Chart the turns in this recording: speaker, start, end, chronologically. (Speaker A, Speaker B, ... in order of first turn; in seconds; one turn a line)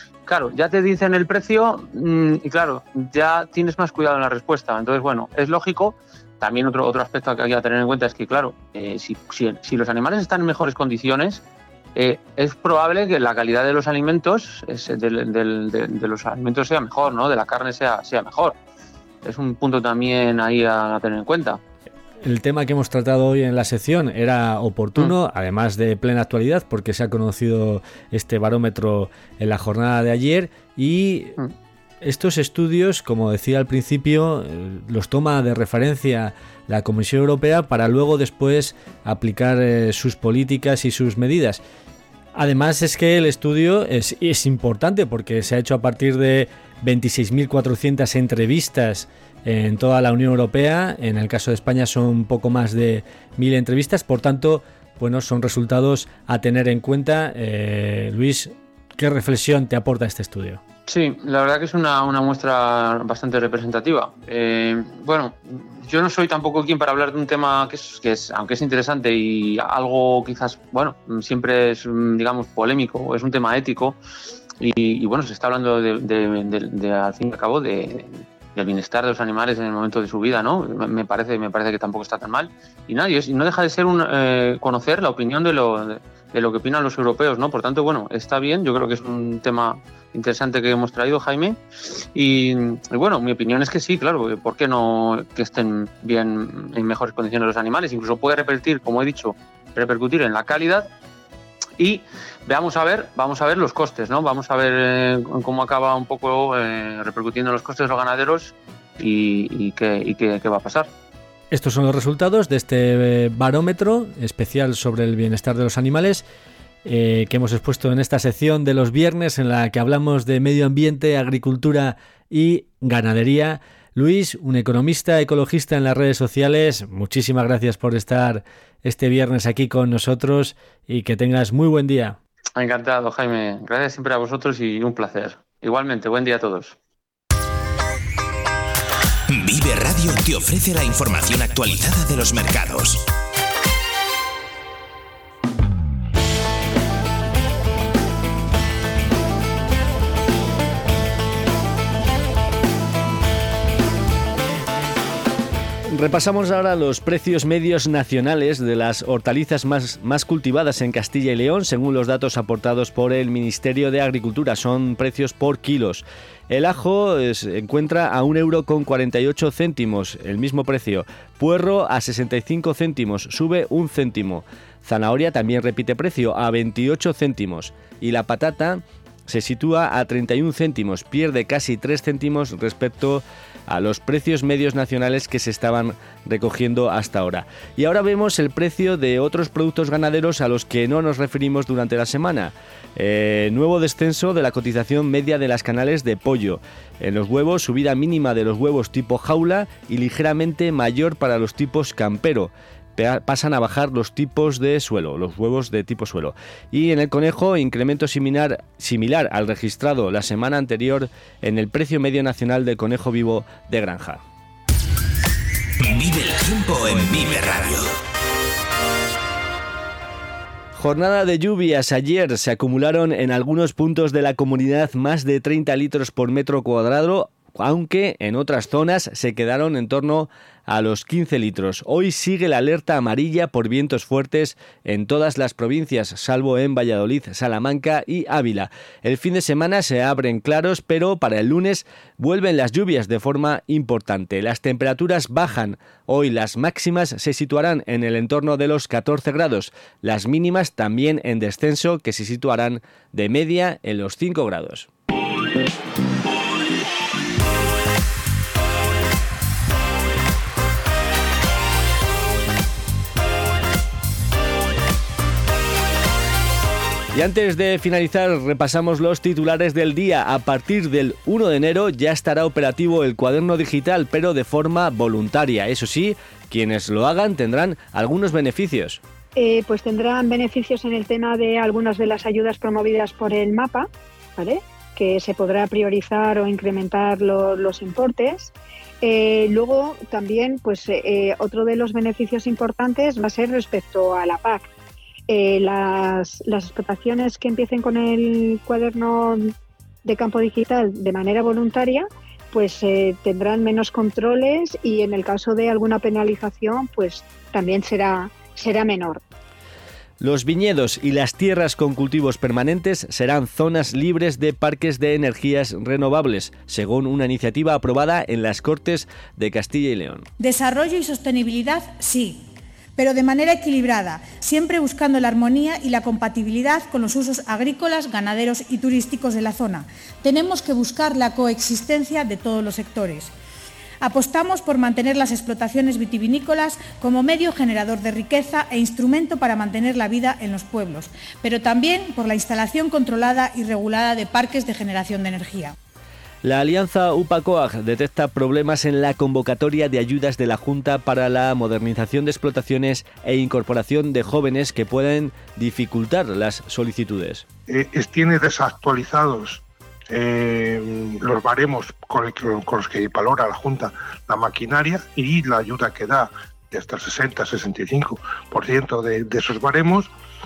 Speaker A: 0.2-11.4
Speaker A: 11.9-18.6
Speaker A: 19.2-21.6
Speaker B: 22.2-31.3
Speaker B: 32.0-41.6
Speaker B: 42.3-60.6
Speaker A: 60.9-74.0
Speaker A: 74.6-100.9
Speaker A: 101.8-110.9
Speaker B: 111.5-116.2
Speaker B: 116.8-132.2
Speaker A: 132.6-136.8
Speaker C: 139.3-143.1
Speaker D: 155.9-214.2
Speaker C: 215.8-217.9
Speaker D: 220.8-254.9
Speaker D: 267.1-279.0
Speaker E: 279.4-294.7
Speaker E: 295.3-299.5
Speaker E: 300.0-309.2
Speaker D: 310.2-320.3
Speaker F: 320.4-322.4
Speaker F: 323.0-333.3
Speaker F: 334.0-345.7
Speaker D: 346.4-357.4
Speaker G: 357.7-370.1